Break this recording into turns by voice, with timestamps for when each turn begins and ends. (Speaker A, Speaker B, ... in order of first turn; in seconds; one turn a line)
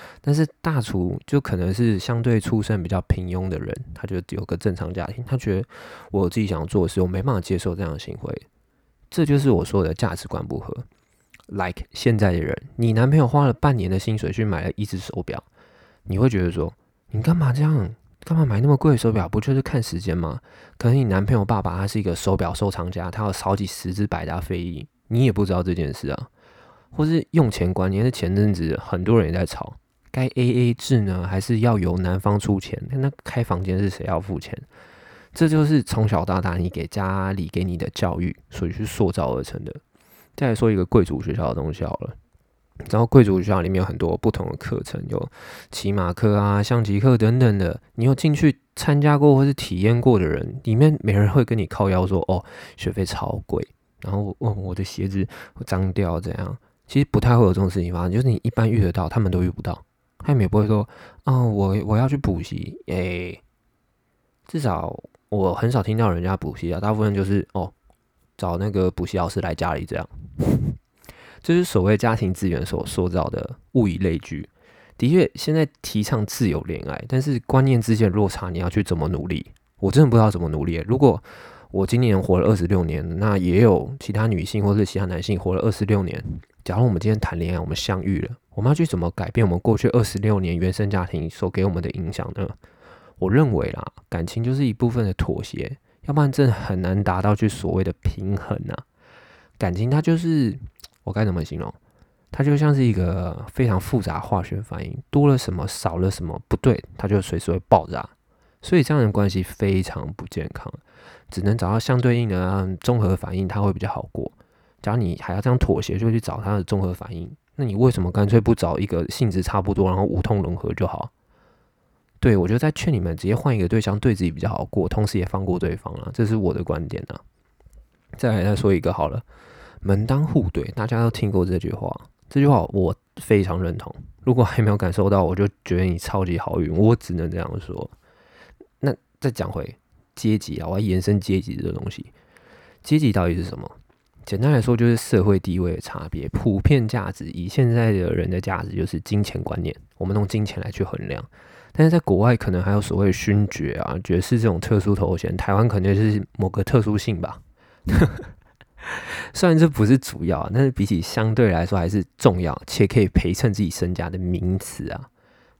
Speaker A: 0.2-8.4
Speaker A: 9.1-10.8
Speaker A: 11.5-15.4
Speaker A: 16.1-26.3
Speaker A: 26.9-34.6
Speaker A: 35.3-39.8
Speaker A: 40.4-42.1
Speaker A: 42.9-63.4
Speaker A: 64.5-67.7
Speaker A: 68.4-70.8
Speaker A: 71.4-92.5
Speaker A: 93.2-98.8
Speaker A: 99.6-101.8
Speaker A: 102.3-121.1
Speaker A: 122.2-127.2
Speaker A: 128.2-129.2
Speaker A: 129.8-137.9
Speaker A: 138.8-142.1
Speaker A: 142.8-158.3
Speaker A: 158.9-165.1